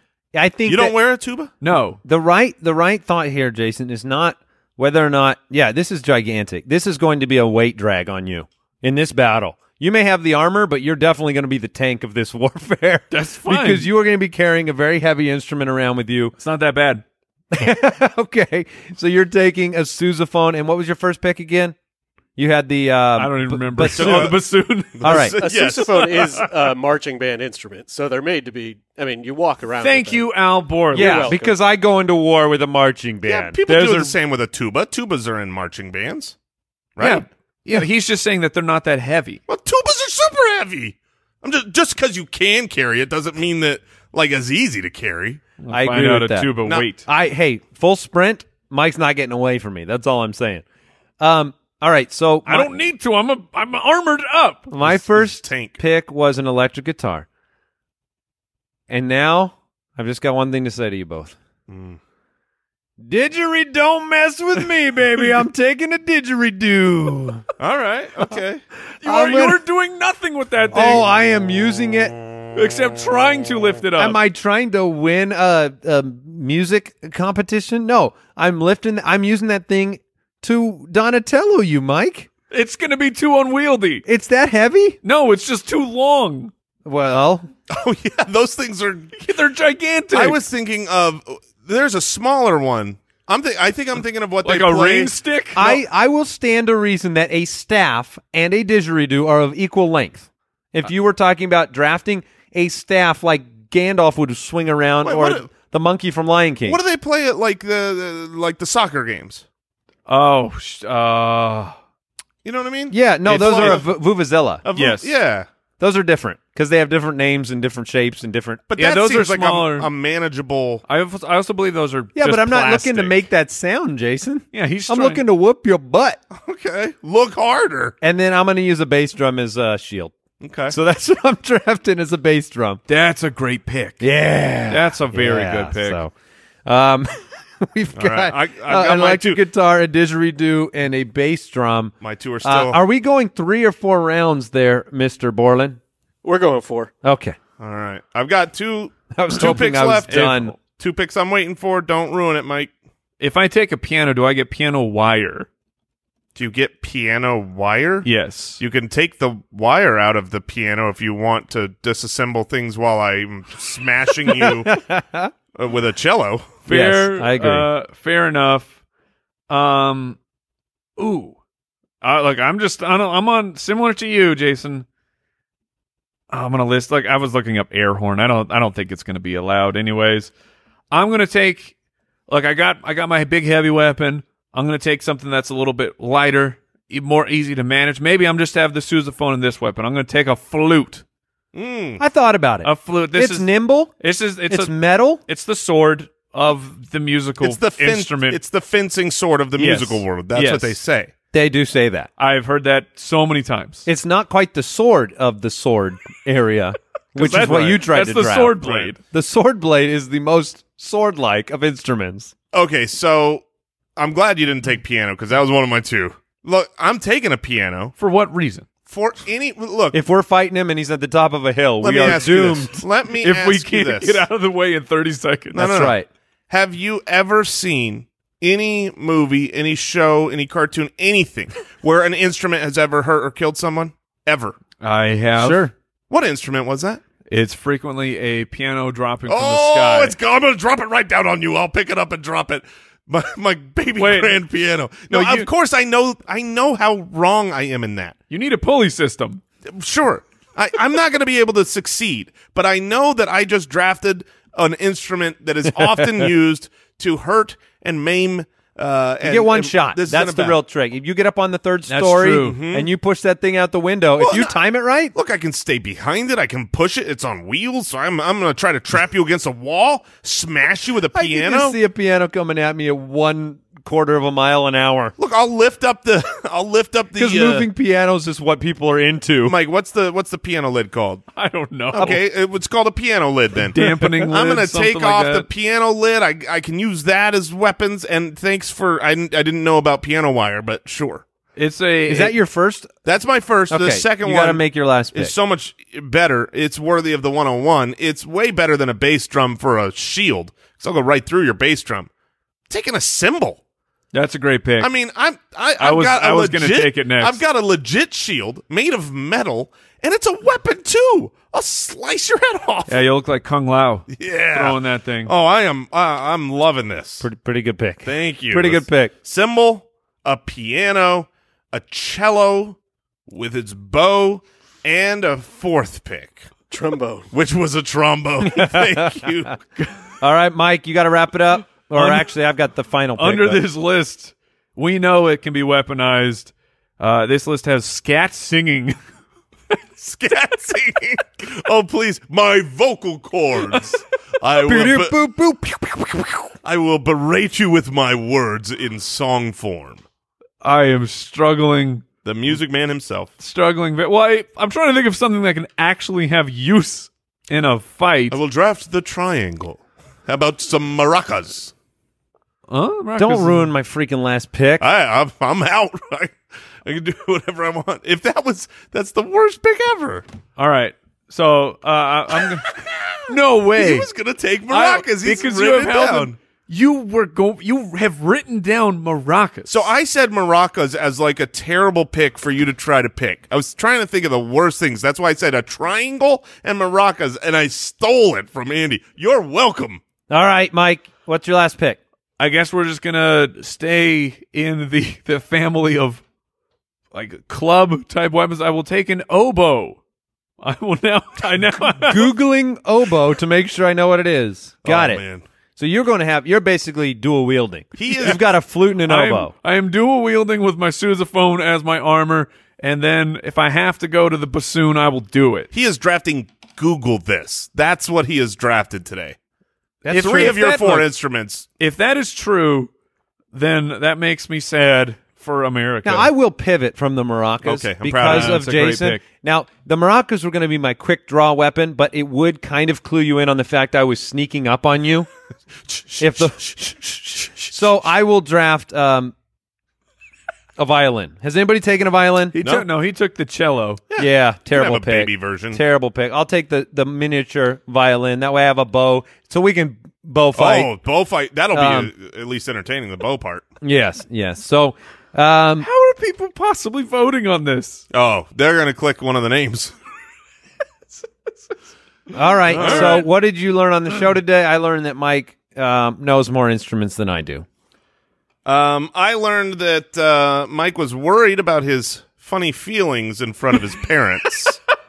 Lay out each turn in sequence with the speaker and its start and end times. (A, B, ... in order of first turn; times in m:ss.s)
0:00.3-0:00.9 A
0:00.6-0:01.5 B
0:01.6-0:02.0 C
0:02.0-0:16.3 A
0:13.1-0:13.9 C
0:16.4-0:17.0 C
0:17.5-0:21.7 A
0:22.4-0:24.3 A
0:23.2-0:25.4 C
0:23.8-0:24.4 B
0:25.0-0:26.4 B
0:25.0-0:25.4 A
0:25.4-0:30.3 D
0:26.0-0:26.5 C
0:29.8-0:31.5 C
0:30.9-0:31.5 D
0:30.9-0:34.1 A
0:33.2-0:36.3 B
0:37.0-0:37.2 B
0:37.0-0:39.4 C
0:39.5-0:45.4 B
0:45.6-0:47.0 C
0:45.7-0:50.6 A
0:51.2-0:52.7 A
0:52.4-0:54.7 C
0:54.7-0:57.3 A
0:54.8-0:55.8 B
0:58.9-1:01.4 A
1:01.7-1:02.0 B
1:03.0-1:07.4 A
1:05.1-1:05.4 C
1:07.6-1:08.6 B
1:09.0-1:09.6 A
1:09.0-1:11.0 C
1:10.7-1:12.2 A
1:12.5-1:14.2 C
1:14.0-1:22.3 A
1:22.5-1:24.0 C
1:24.1-1:25.0 A
1:25.0-1:26.5 C
1:26.8-1:27.5 A
1:27.7-1:29.2 B
1:29.2-1:30.4 C
1:30.1-1:35.2 B
1:34.4-1:35.8 C
1:35.6-1:46.8 A
1:45.0-1:45.5 B
1:46.6-1:49.4 B
1:50.1-1:51.8 C
1:52.4-1:53.9 B
1:52.9-1:54.6 A
1:54.6-1:55.5 B
1:54.7-1:55.2 C
1:55.8-1:58.6 A
1:58.7-2:00.8 B
1:58.8-1:59.9 C
2:00.9-2:03.2 C
2:02.2-2:06.2 A
2:04.5-2:05.2 C
2:06.3-2:07.9 B
2:08.0-2:10.1 A
2:10.4-2:10.8 B
2:10.7-2:12.8 A
2:12.9-2:14.0 C
2:14.0-2:16.1 A
2:14.7-2:16.0 C
2:16.6-2:25.8 A
2:18.0-2:19.4 B
2:22.0-2:22.8 B
2:26.2-2:26.9 D
2:27.0-2:27.4 A
2:27.6-2:30.1 B
2:29.1-2:30.6 A
2:29.4-2:30.5 C
2:30.6-2:32.7 B
2:33.2-2:35.5 C
2:36.3-2:38.1 B
2:38.0-2:38.6 C
2:38.6-2:44.8 B
2:44.2-2:45.3 A
2:45.5-2:46.6 B
2:46.6-2:48.7 C
2:46.7-2:47.7 A
2:49.5-2:50.2 C
2:51.0-2:51.4 C
2:52.0-2:54.8 C
2:56.3-3:00.3 C
3:00.9-3:01.7 C
3:02.3-3:11.0 C
3:11.5-3:12.0 B
3:12.0-3:13.9 A
3:12.6-3:14.7 C
3:14.5-3:15.2 A
3:15.3-3:18.4 C
3:17.4-3:21.1 B
3:19.6-3:20.8 C
3:21.3-3:22.1 A
3:22.2-3:23.8 C
3:23.8-3:32.3 A
3:27.1-3:29.0 C
3:28.6-3:28.9 B
3:32.5-3:33.4 B
3:34.0-3:37.9 B
3:38.0-3:38.7 C
3:38.9-3:40.0 B
3:39.9-3:42.8 A
3:41.8-3:44.2 B
3:43.2-3:45.9 C
3:45.5-3:45.9 B
3:45.5-3:46.1 A
3:46.5-3:54.6 B
3:54.8-3:55.7 C
3:55.4-3:55.7 A
3:56.1-3:57.0 B
3:57.3-4:00.2 C
3:59.3-4:08.1 B
4:04.0-4:04.4 C
4:05.1-4:05.5 C
4:08.3-4:09.4 C
4:09.7-4:20.6 B
4:19.2-4:25.1 A
4:21.9-4:22.6 C
4:22.4-4:22.9 B
4:24.2-4:24.5 B
4:25.1-4:31.8 B
4:31.1-4:35.1 A
4:35.2-4:37.6 B
4:37.2-4:39.6 A
4:39.4-4:41.2 B
4:41.4-4:42.2 C
4:41.9-4:51.2 B
4:43.6-4:45.5 C
4:51.6-4:52.4 C
4:52.1-4:52.9 A
4:53.0-4:54.6 B
4:53.7-4:55.3 A
4:55.1-5:02.1 B
5:02.7-5:03.6 B
5:04.1-5:04.9 C
5:04.8-5:13.0 B
5:05.8-5:07.4 C
5:12.9-5:15.3 C
5:14.1-5:17.3 B
5:17.2-5:19.1 A
5:18.0-5:22.8 B
5:23.3-5:26.5 B
5:26.7-5:27.3 D
5:27.3-5:29.6 B
5:28.4-5:29.3 A
5:30.2-5:33.6 A
5:31.9-5:32.3 C
5:33.2-5:39.0 C
5:40.0-5:45.1 B
5:43.7-5:44.0 C
5:44.6-5:46.5 A
5:46.6-5:50.0 B
5:50.6-5:52.0 C
5:52.2-5:53.3 B
5:53.4-5:58.4 C
5:58.3-6:01.7 B
6:02.7-6:03.7 C
6:03.2-6:04.9 A
6:04.8-6:10.2 B
6:10.6-6:12.7 C
6:12.7-6:16.4 B
6:13.3-6:14.1 C
6:14.7-6:19.9 C
6:19.7-6:30.0 B
6:30.3-6:32.0 A
6:32.4-6:36.2 C
6:37.1-6:40.0 C
6:40.6-6:42.3 C
6:42.0-6:45.2 A
6:44.8-6:45.4 B
6:45.8-6:49.5 A
6:48.0-6:48.4 B
6:49.0-6:55.7 C
6:55.7-6:59.4 B
7:00.0-7:00.8 A
7:00.1-7:01.1 C
7:00.1-7:01.7 B
7:01.8-7:02.9 C
7:03.5-7:06.3 C
7:06.0-7:15.3 A
7:07.6-7:08.6 B
7:08.2-7:09.2 C
7:15.9-7:17.8 B
7:16.2-7:16.6 A
7:17.7-7:19.3 A
7:20.8-7:22.6 A
7:22.6-7:24.0 C
7:24.1-7:25.8 B
7:24.2-7:30.9 A
7:30.6-7:33.6 B
7:31.7-7:32.1 A
7:33.8-7:35.9 A
7:35.8-7:38.0 C
7:38.1-7:39.9 B
7:41.2-7:41.7 C
7:42.3-7:47.6 A
7:42.7-7:43.3 C
7:42.7-7:43.2 B
7:48.6-7:54.8 B